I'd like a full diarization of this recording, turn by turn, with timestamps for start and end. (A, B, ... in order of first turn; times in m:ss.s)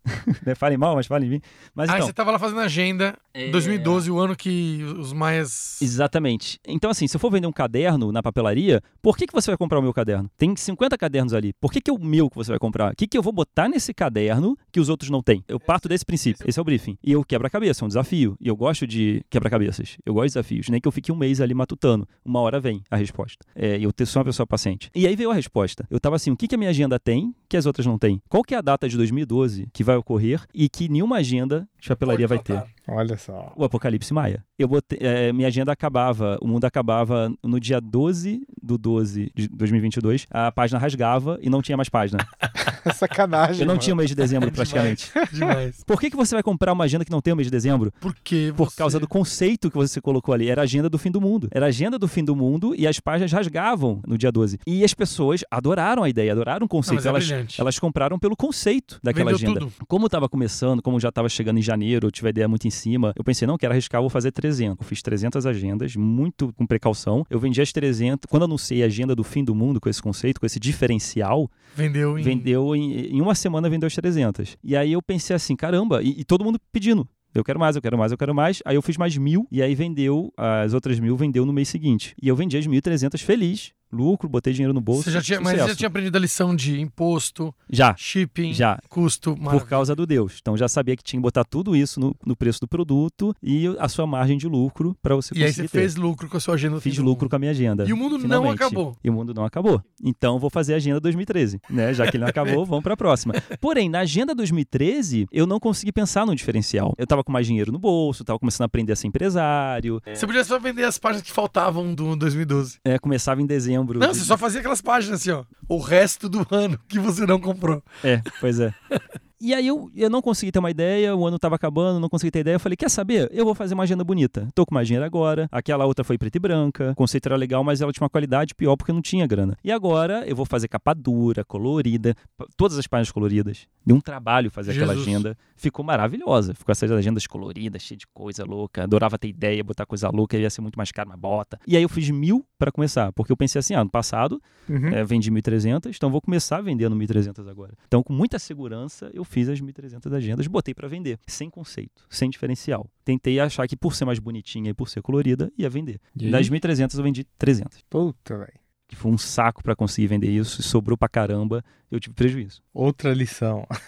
0:00.1-0:02.1 A
0:01.9-0:05.9 B
0:03.3-0:04.1 A
0:05.8-0:32.6 A
0:15.6-0:16.5 B
0:32.1-0:32.7 B
0:32.9-0:33.6 C
0:33.6-0:42.3 A
0:42.6-0:44.0 C
0:43.6-0:45.2 A
0:44.4-0:45.8 B
0:45.8-0:48.0 A
0:48.0-0:49.1 B
0:48.6-1:11.5 A
0:56.9-0:57.6 B
0:59.1-0:59.7 B
1:11.8-1:12.5 B
1:12.2-1:25.8 A
1:24.9-1:29.9 B
1:27.7-1:28.8 A
1:29.5-1:35.9 A
1:35.3-1:37.3 B
1:36.8-1:50.2 A
1:37.8-1:39.0 B
1:42.2-1:42.6 B
1:50.1-1:52.8 B
1:52.8-1:54.4 A
1:54.0-1:58.0 B
1:58.0-1:58.8 A
1:59.4-2:37.8 A
2:14.7-2:15.2 B
2:24.7-2:25.0 C
2:36.2-2:36.5 C
2:37.9-2:38.6 C
2:38.9-2:42.6 A
2:42.8-2:43.7 C